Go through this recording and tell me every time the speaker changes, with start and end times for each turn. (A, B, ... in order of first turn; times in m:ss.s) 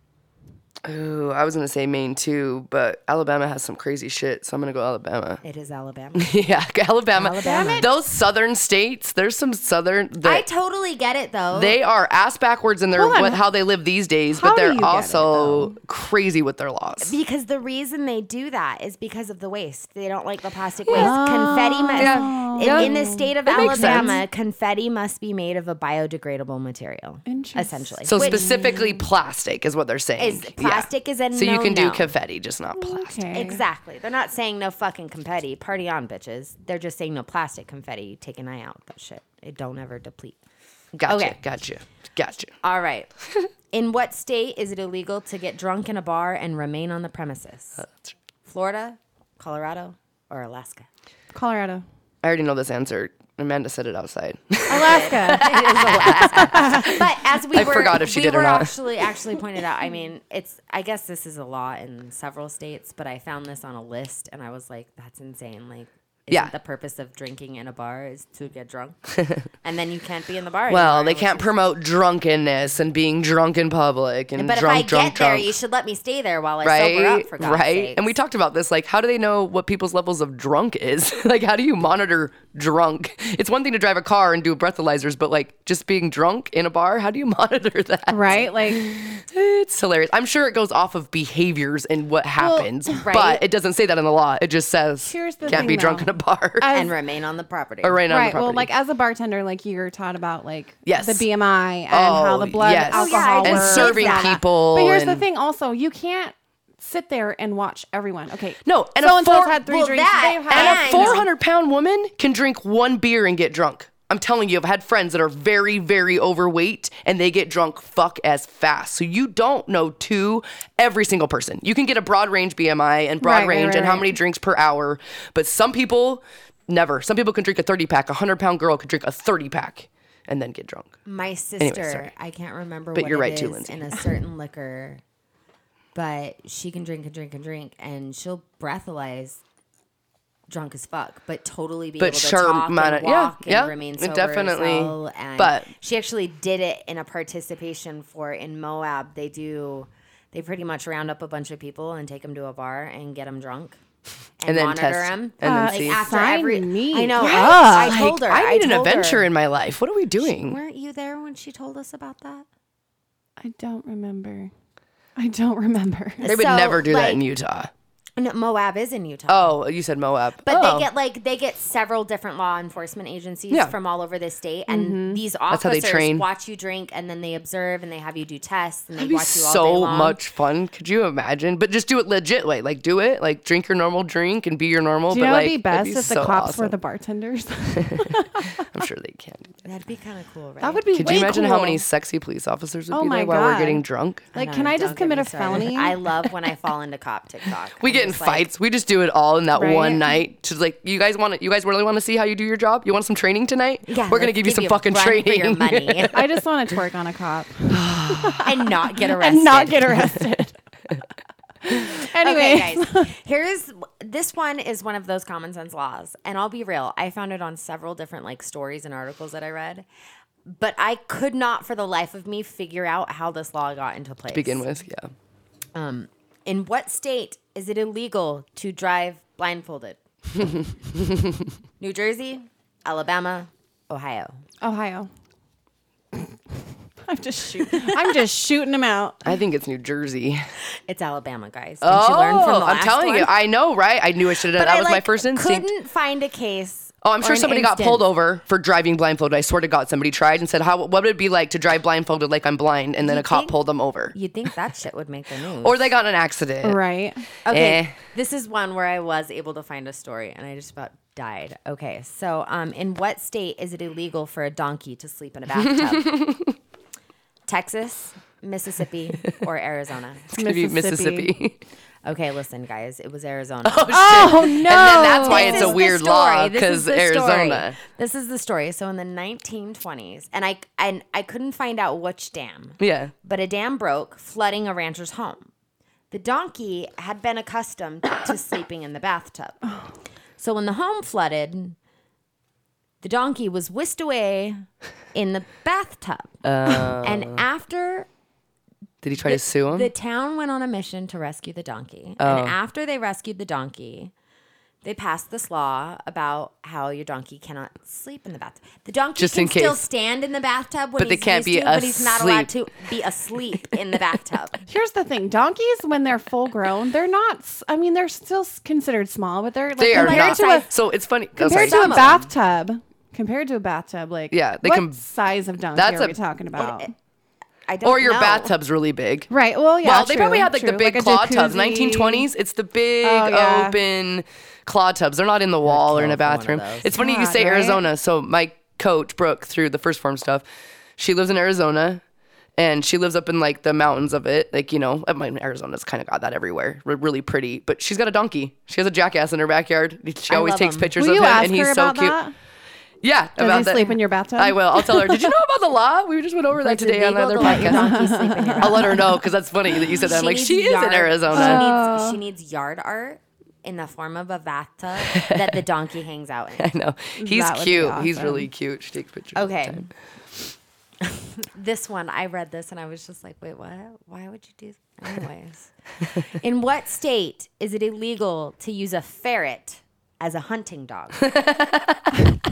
0:00.8-0:05.4 A
0:05.4-0:06.4 B
0:06.1-0:10.4 A
0:07.1-0:07.9 B
0:07.4-0:07.9 C
0:10.2-0:11.8 B
0:11.5-0:17.1 A
0:12.9-0:13.4 C
0:14.3-0:15.7 C
0:17.0-0:28.5 B
0:20.9-0:21.1 A
0:20.9-0:24.2 C
0:22.0-0:22.9 A
0:23.5-0:24.2 A
0:27.2-0:29.0 C
0:28.0-0:33.2 A
0:30.2-0:32.1 B
0:32.8-0:33.6 C
0:33.3-0:40.4 B
0:40.9-0:42.5 A
0:41.0-0:41.4 B
0:42.6-0:43.1 B
0:43.7-0:47.8 B
0:47.8-0:48.1 A
0:48.4-0:50.9 B
0:51.3-0:51.8 C
0:52.2-0:58.8 A
0:54.7-0:57.0 C
0:54.7-1:11.6 B
1:10.7-1:15.5 A
1:14.3-1:18.1 B
1:16.6-1:36.7 A
1:28.1-1:28.8 C
1:32.4-1:33.4 B
1:35.0-1:36.9 C
1:36.7-1:38.0 B
1:37.8-1:38.7 A
1:38.1-1:51.2 C
1:40.8-1:41.3 A
1:41.9-1:45.2 A
1:42.9-1:44.4 B
1:48.6-1:49.6 A
1:49.6-1:51.2 B
1:50.5-2:10.9 A
2:03.2-2:04.2 C
2:11.0-2:15.0 B
2:11.6-2:12.1 A
2:12.9-2:13.9 A
2:15.9-2:19.4 B
2:20.5-2:33.8 B
2:22.0-2:25.7 A
2:34.4-2:39.3 B
2:34.4-2:36.0 A
2:35.4-2:38.0 C
2:37.2-2:40.6 A
2:40.2-2:42.4 B
2:43.4-2:44.5 C
2:45.2-2:46.2 C
2:46.2-2:47.2 B
2:46.2-2:47.7 A
2:48.2-2:49.6 B
2:49.3-2:50.9 A
2:50.4-3:00.2 B
2:53.5-2:53.7 A
2:54.7-2:55.2 C
2:55.5-2:56.2 A
2:59.0-3:06.7 A
3:05.1-3:08.6 C
3:07.7-3:09.6 A
3:09.6-3:11.3 B
3:10.6-3:11.8 C
3:10.9-3:14.2 A
3:12.9-3:13.8 C
3:14.3-3:16.0 C
3:14.3-3:18.5 B
3:17.8-3:26.2 A
3:19.5-3:20.2 C
3:23.8-3:26.2 B
3:26.1-3:30.5 C
3:27.7-3:28.5 A
3:28.4-3:30.2 B
3:31.6-3:33.1 C
3:32.1-3:39.8 B
3:40.4-3:44.7 B
3:44.3-3:45.1 A
3:45.7-3:50.0 B
3:51.0-3:51.4 A
3:51.8-3:54.4 B
3:54.6-3:55.1 C
3:57.1-3:59.2 C
3:59.2-4:00.4 A
4:00.9-4:03.3 B
4:01.8-4:05.7 A
4:04.5-4:08.1 B
4:07.0-4:14.1 A
4:13.0-4:13.5 B
4:14.1-4:15.9 B
4:15.6-4:16.8 A
4:16.6-4:17.2 C
4:17.4-4:26.2 B
4:17.5-4:18.0 A
4:25.7-4:26.5 A
4:27.5-4:30.3 B
4:30.3-4:31.6 A
4:30.3-4:31.3 C
4:32.0-4:45.5 B
4:33.6-4:37.8 A
4:33.9-4:35.8 C
4:42.8-4:43.1 A
4:46.1-4:49.6 B
4:50.4-4:51.8 B
4:53.0-4:56.4 B
4:56.4-4:57.4 A
4:57.0-4:58.1 B
4:59.0-4:59.9 A
4:59.2-5:04.1 B
5:02.2-5:02.6 A
5:04.8-5:14.6 B
5:09.2-5:09.8 A
5:11.0-5:12.5 A
5:14.7-5:20.7 C
5:19.8-5:22.2 A
5:19.9-5:20.7 B
5:21.4-5:26.9 C
5:21.6-5:22.3 B
5:24.3-5:25.0 A
5:25.7-5:26.2 A
5:26.6-5:26.9 B
5:27.7-5:28.5 B
5:27.8-5:29.3 A
5:29.3-5:32.3 C
5:29.8-5:40.4 A
5:33.0-5:33.8 C
5:35.6-5:36.9 B
5:36.9-5:37.8 C
5:41.0-5:42.0 A
5:42.6-5:52.2 A
5:50.3-5:51.0 B
5:51.0-5:52.3 C
5:53.0-5:57.9 A
5:53.4-5:55.3 C
5:56.6-5:59.0 B
5:57.4-5:59.1 C
5:58.6-6:01.7 A
6:00.0-6:06.7 B
6:01.3-6:02.2 C
6:05.0-6:05.6 A
6:06.6-6:09.9 A
6:07.2-6:08.5 C
6:09.3-6:09.9 B
6:11.0-6:21.3 B
6:21.2-6:22.1 A